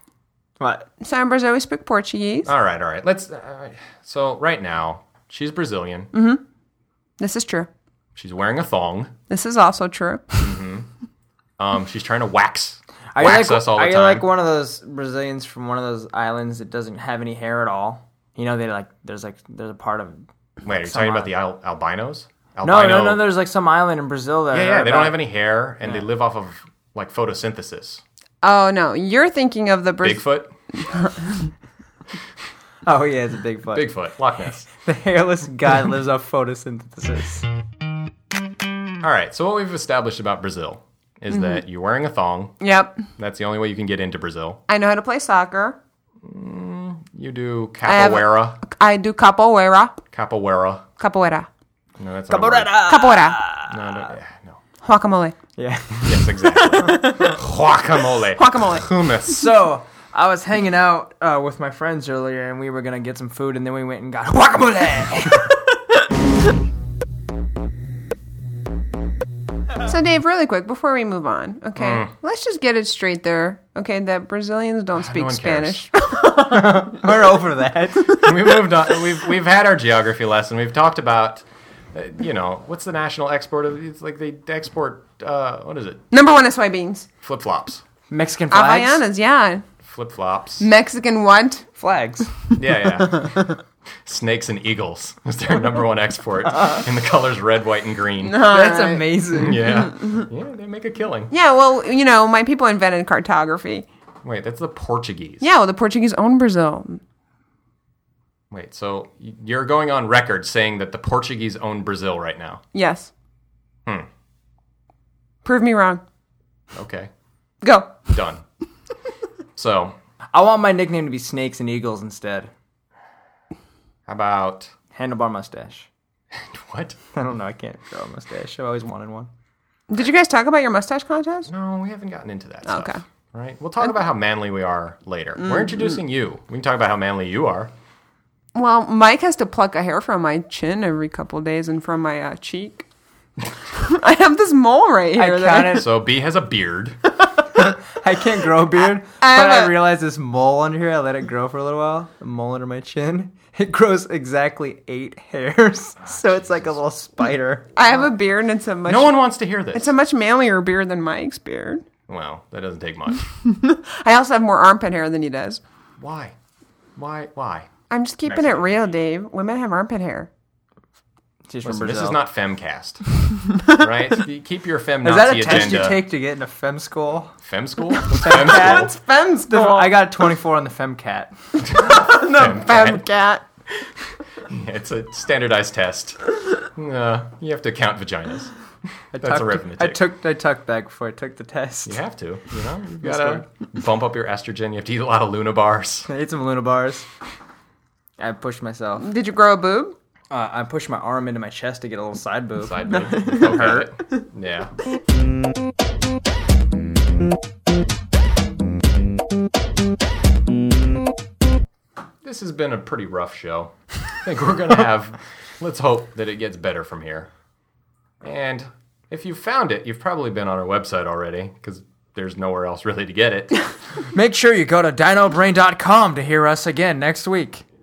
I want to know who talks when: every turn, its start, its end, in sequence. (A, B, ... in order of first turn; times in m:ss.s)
0:00.6-0:00.8 A
0:01.0-0:02.5 B
0:02.4-0:06.1 C
0:06.1-0:06.4 B
0:07.2-0:07.7 B
0:08.2-0:09.1 C
0:09.3-0:10.4 B
0:10.4-0:10.9 C
0:11.6-0:14.3 C
0:13.1-0:21.3 A
0:20.6-0:23.3 C
0:22.6-0:25.2 A
0:24.5-0:28.0 C
0:28.4-0:30.2 B
0:30.0-0:30.5 C
0:30.8-0:31.5 B
0:32.8-0:33.9 A
0:33.7-0:34.7 C
0:34.7-0:37.4 A
0:39.0-0:42.6 C
0:41.3-0:41.6 B
0:42.6-0:43.0 B
0:43.2-0:44.6 C
0:44.7-0:45.8 B
0:46.2-0:48.6 C
0:47.8-0:50.0 B
0:50.1-0:50.8 C
0:51.0-0:51.5 B
0:52.0-0:52.8 C
0:52.3-0:54.1 A
0:52.8-0:53.4 B
0:53.7-0:54.6 C
0:54.8-0:55.3 B
0:55.6-0:56.2 A
0:56.0-0:59.4 C
0:56.4-0:57.3 B
0:56.8-0:57.3 A
0:58.3-0:58.8 B
0:59.2-1:05.6 A
1:09.8-1:17.0 B
1:11.8-1:12.1 C
1:14.9-1:15.9 C
1:16.5-1:18.2 A
1:18.1-1:26.0 C
1:26.1-1:27.1 B
1:27.2-1:27.8 C
1:28.1-1:29.0 A
1:28.5-1:29.6 B
1:29.8-1:30.7 C
1:30.6-1:31.6 B
1:31.8-1:32.5 A
1:32.6-1:33.5 C
1:34.0-1:38.4 C
1:36.5-1:36.8 A
1:38.2-1:39.1 B
1:38.4-1:39.8 A
1:39.3-1:41.3 C
1:41.3-1:43.8 B
1:44.2-1:45.5 C
1:45.4-1:47.0 B
1:48.5-1:52.6 C
1:52.7-1:53.1 B
1:55.4-1:56.0 B
1:56.7-1:57.1 C
1:57.6-1:58.1 B
1:58.1-1:58.4 C
1:59.6-2:00.0 C
2:00.3-2:02.5 A
2:04.1-2:04.7 C
2:04.9-2:05.9 A
2:06.3-2:07.0 C
2:07.1-2:09.3 A
2:09.9-2:11.5 B
2:11.5-2:17.7 C
2:12.7-2:13.0 B
2:15.4-2:15.9 B
2:18.5-2:22.8 B
2:23.7-2:25.9 B
2:25.1-2:25.9 A
2:25.7-2:27.0 C
2:27.5-2:37.7 A
2:29.2-2:29.8 B
2:36.2-2:36.6 C
2:37.7-2:41.8 B
2:38.8-2:39.9 C
2:42.1-2:43.3 C
2:43.4-2:45.6 B
2:46.0-2:46.3 C
2:47.0-2:47.7 C
2:47.9-2:50.3 B
2:48.2-2:48.9 C
2:51.5-2:52.2 A
2:51.6-2:53.1 C
2:53.6-2:56.0 C
2:55.0-2:57.4 A
2:57.4-2:58.9 C
2:58.0-2:58.9 A
2:58.6-3:00.0 B
2:59.5-3:01.3 A
3:01.7-3:03.0 C
3:01.8-3:03.4 B
3:04.4-3:08.5 C
3:09.1-3:12.0 A
3:09.1-3:10.1 C
3:11.8-3:16.1 C
3:13.0-3:13.4 A
3:16.1-3:17.1 A
3:18.2-3:19.1 A
3:19.0-3:20.0 B
3:20.3-3:23.8 A
3:22.6-3:24.7 C
3:32.2-3:37.3 C
3:38.2-3:43.6 C
3:44.1-3:47.6 A